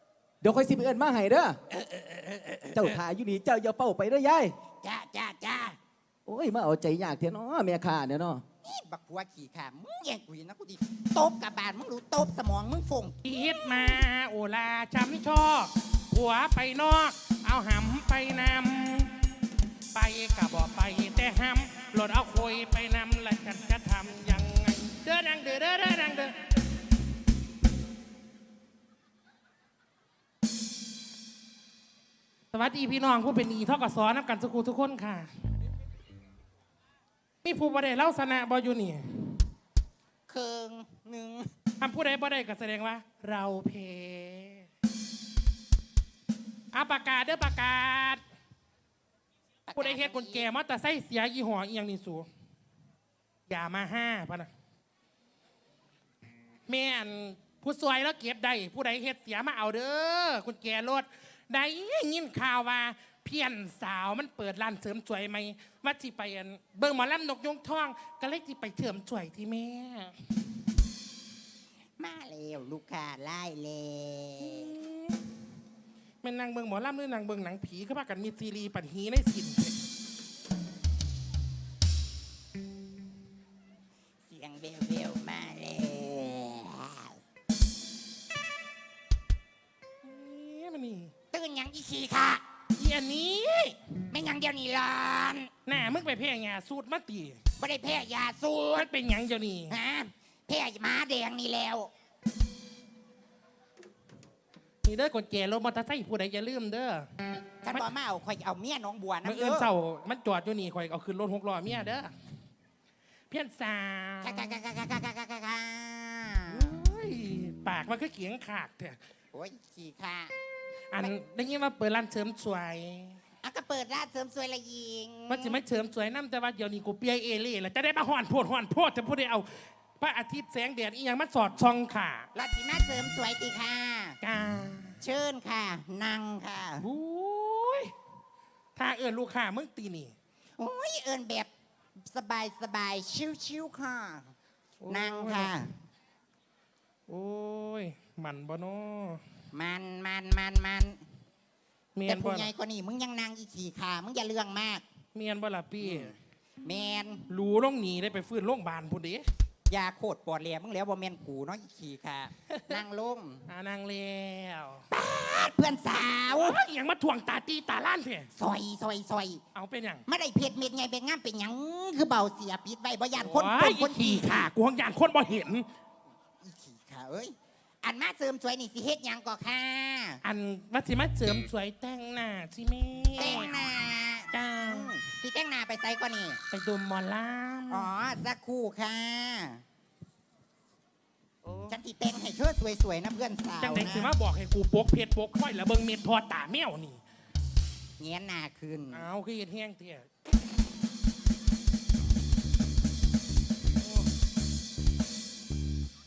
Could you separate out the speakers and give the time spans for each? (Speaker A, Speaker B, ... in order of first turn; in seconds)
Speaker A: 0.4-1.6, 2.7-4.5, 6.3-8.4
Speaker B: 1.7-3.0, 4.8-5.8, 8.6-13.2, 40.3-41.5, 49.7-50.5, 72.0-74.8, 84.3-87.2, 91.3-92.4, 94.1-95.5, 97.6-98.9, 99.7-101.9, 107.7-109.7, 114.2-116.8, 119.3-120.3, 123.4-125.6, 132.3-134.2, 135.0-136.9, 140.6-141.5, 142.0-144.3, 144.9-145.7, 149.5-151.0, 152.1-154.8, 155.8-156.1, 156.7-157.3, 159.7-163.4, 164.9-166.6, 168.3-169.4, 170.1-174.5, 176.4-180.2, 183.2-186.4, 187.7-189.6, 191.7-194.1, 198.0-199.1
Speaker C: 13.2-19.1, 19.9-26.4, 32.5-35.3, 37.4-39.4, 41.8-44.7, 46.7-48.2, 49.8-52.3, 53.5-54.5, 56.7-70.2, 74.4-75.2, 76.2-79.8, 90.0-91.1, 92.8-93.8, 95.7-97.4, 98.8-99.8, 104.8-107.1, 109.2-112.1, 113.3-114.5, 116.5-119.0, 120.9-123.2, 125.3-132.3, 134.2-134.9, 136.8-137.9, 138.8-140.1, 144.8-145.5, 147.1-149.2, 151.9-152.5, 155.2-156.2, 157.3-159.3, 163.5-164.9, 166.3-168.3, 169.6-170.0, 173.2-175.7, 180.2-183.6, 184.3-184.9, 186.5-187.9, 191.4-191.8, 193.6-197.0, 198.9-200.1